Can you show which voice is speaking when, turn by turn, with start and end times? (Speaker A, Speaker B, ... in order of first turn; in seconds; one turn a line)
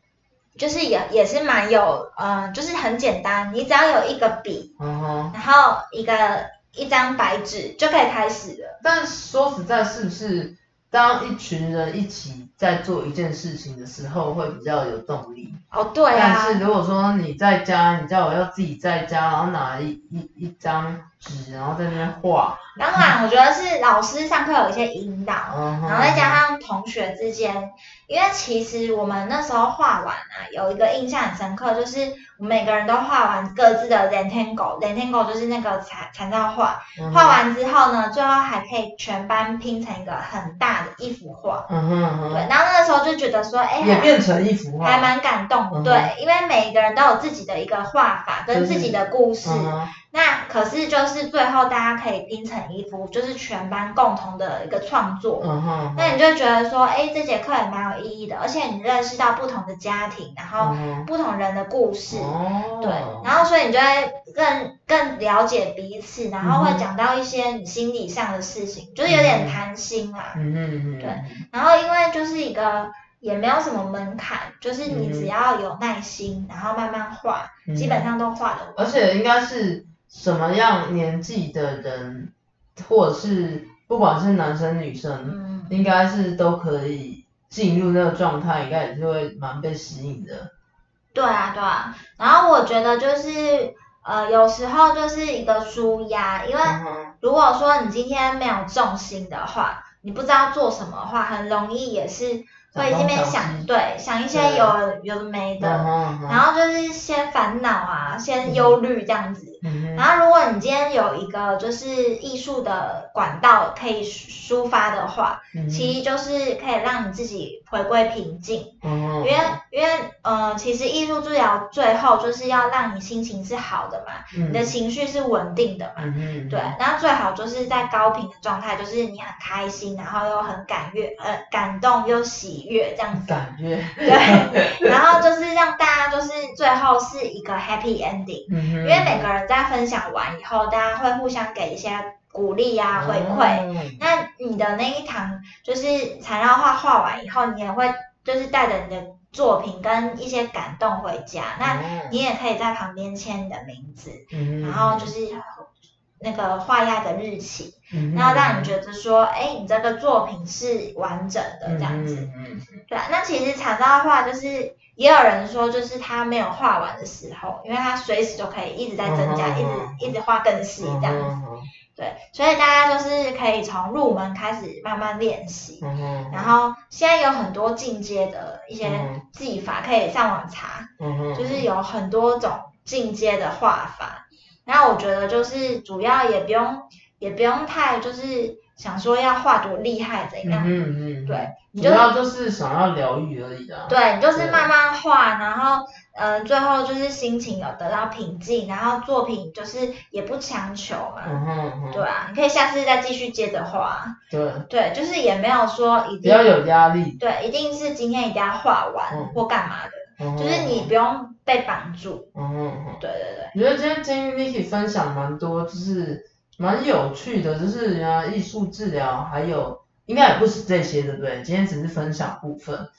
Speaker A: 0.6-4.7
Speaker B: 4.8-5.3
Speaker A: 5.3-8.8
Speaker B: 8.8-15.6
Speaker A: 15.7-16.6
Speaker B: 16.1-23.1
Speaker A: 22.8-41.7
Speaker B: 25.5-26.4
Speaker B: 37.0-37.4
Speaker B: 41.7-42.5
Speaker A: 42.3-44.2
Speaker B: 43.8-45.1
Speaker A: 44.8-70.4
Speaker B: 45.7-46.1
Speaker B: 48.5-49.9
Speaker B: 55.4-56.2
Speaker B: 60.6-61.1
Speaker B: 62.1-63.3
Speaker B: 66.4-66.8
Speaker B: 69.1-69.6
Speaker B: 70.3-71.4
Speaker A: 71.0-78.9
Speaker B: 74.8-75.3
Speaker B: 77.7-78.1
Speaker B: 78.8-90.5
Speaker A: 85.2-85.8
Speaker A: 91.1-133.4
Speaker B: 96.6-97.1
Speaker B: 102.7-103.7
Speaker B: 104.3-104.7
Speaker B: 105.6-106.4
Speaker B: 108.4-108.8
Speaker B: 109.6-110.0
Speaker B: 115.5-116.0
Speaker B: 118.8-119.6
Speaker B: 124.3-124.7
Speaker B: 126.0-126.7
Speaker B: 133.1-134.9
Speaker A: 134.0-155.7
Speaker B: 138.5-139.3
Speaker B: 142.9-144.0
Speaker B: 151.6-152.2
Speaker B: 154.3-155.1
Speaker A: 156.2-162.2
Speaker B: 157.9-158.7
Speaker B: 161.6-162.8
Speaker A: 162.9-171.3
Speaker B: 169.0-170.1
Speaker B: 170.8-171.7
Speaker A: 171.9-192.1
Speaker B: 175.8-176.5
Speaker B: 178.8-179.2
Speaker B: 181.0-181.7
Speaker B: 190.4-194.7
Speaker A: 193.9-201.3
Speaker B: 201.2-202.0
Speaker A: 201.9-204.2
Speaker B: 204.3-204.7
Speaker A: 204.7-206.5
Speaker B: 206.2-207.2
Speaker A: 207.2-212.3
Speaker B: 209.1-209.4
Speaker B: 210.2-210.9
Speaker B: 212.3-213.0
Speaker A: 213.0-213.5
Speaker B: 213.5-222.9